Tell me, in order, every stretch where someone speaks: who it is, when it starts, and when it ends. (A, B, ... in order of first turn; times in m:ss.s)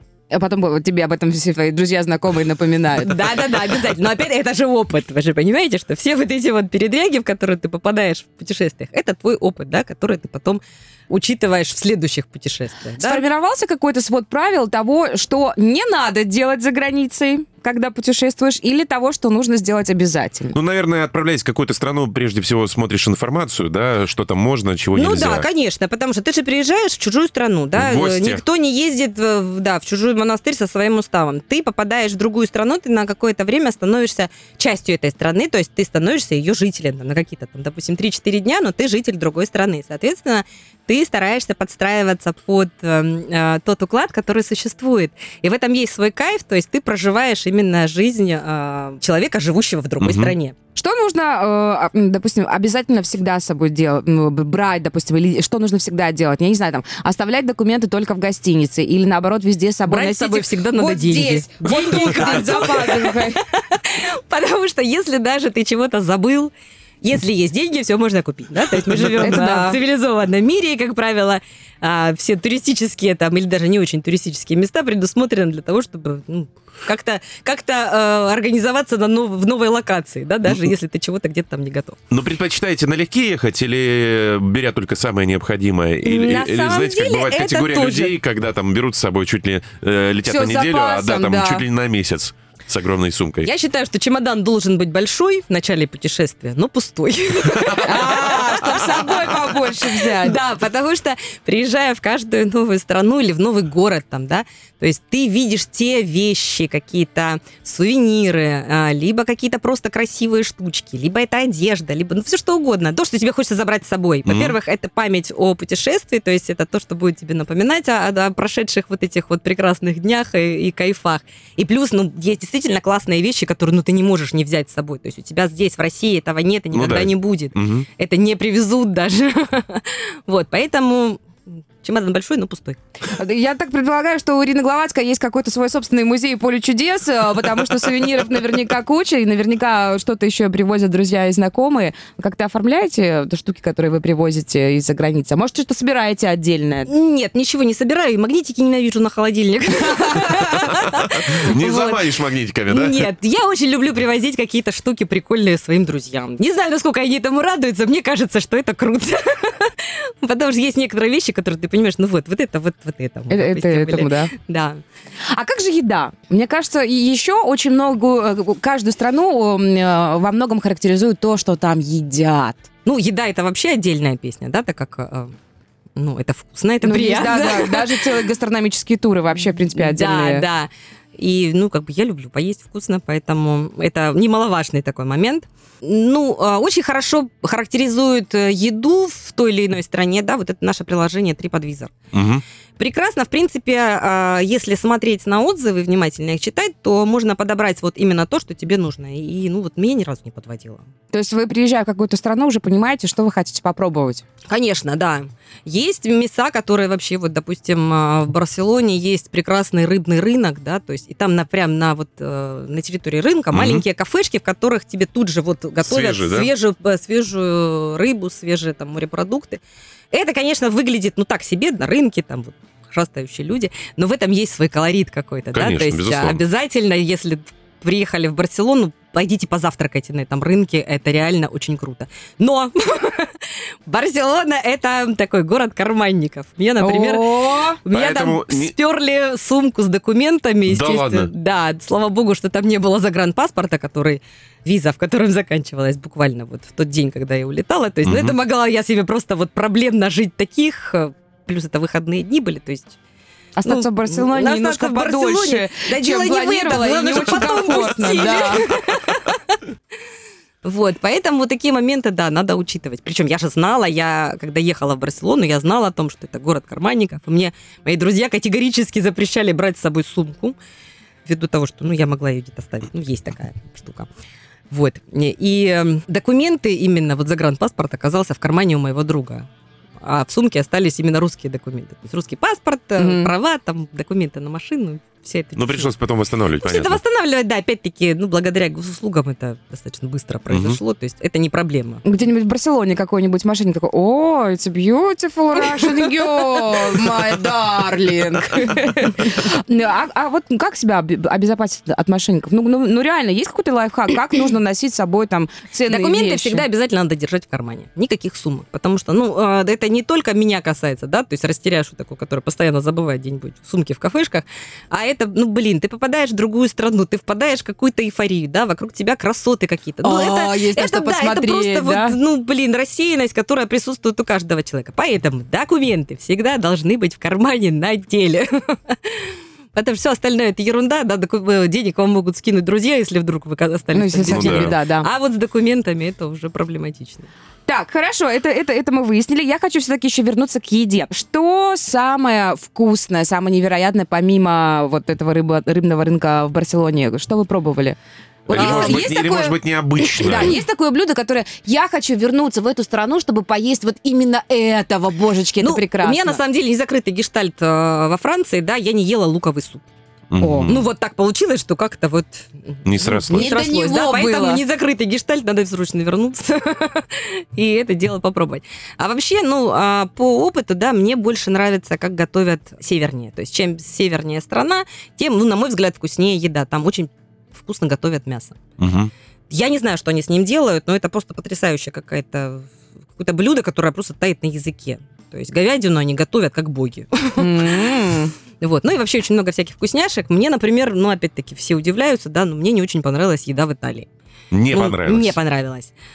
0:00.3-0:03.3 A
0:03.0-0:13.2 B
0:13.0-0:20.6 A
0:20.5-0:25.4 C
0:24.9-0:50.5 B
0:27.7-0:28.4 C
0:50.0-0:50.3 C
0:50.7-1:03.4 A
0:59.9-1:22.0 B
1:09.1-1:09.8 A
1:22.1-1:33.5 C
1:26.0-1:28.1 B
1:30.2-1:31.6 A
1:33.4-2:11.2 B
1:37.8-1:40.4 A
1:54.2-1:54.5 C
2:06.7-2:07.9 C
2:11.8-2:12.8 B
2:13.1-2:26.9 A
2:26.8-2:32.1 B
2:30.7-2:33.0 C
2:32.7-2:44.8 B
2:43.3-2:44.3 A
2:45.3-2:52.7 A
2:52.8-2:55.3 B
2:56.0-2:58.0 B
2:56.8-3:00.4 A
2:59.7-3:11.9 B
3:12.1-3:12.4 C
3:12.8-3:20.8 B
3:21.1-3:24.2 A
3:24.5-3:39.6 B
3:33.5-3:33.8 C
3:35.8-3:36.5 C
3:40.1-4:13.0 B
3:45.5-3:46.4 C
3:56.8-3:57.8 A
3:57.9-3:58.7 C
4:00.7-4:01.3 C
4:08.0-4:08.4 C
4:13.6-4:18.7 A
4:13.6-4:19.6 B
4:20.6-4:30.6 B
4:31.2-4:34.1 B
4:34.7-4:39.5 B
4:40.0-4:45.9 B
4:43.0-4:43.3 A
4:45.6-4:47.0 C
4:46.6-4:52.0 B
4:50.5-4:50.8 C
4:52.0-5:06.6 A
4:55.6-4:56.8 B
5:05.9-5:37.3 B
5:20.0-5:22.2 A
5:33.9-5:35.1 A
5:34.3-5:34.7 C
5:37.7-5:56.4 A
5:48.5-5:50.6 C
5:48.5-5:49.1 B
5:55.6-5:59.9 B
6:00.3-6:00.8 C
6:00.4-6:00.7 A
6:00.6-6:18.6 B
6:02.8-6:03.5 C
6:03.1-6:04.6 A
6:18.8-6:19.1 C
6:19.5-6:27.7 B
6:27.4-6:28.3 A
6:28.6-6:34.1 B
6:34.5-6:35.4 C
6:34.7-6:35.9 B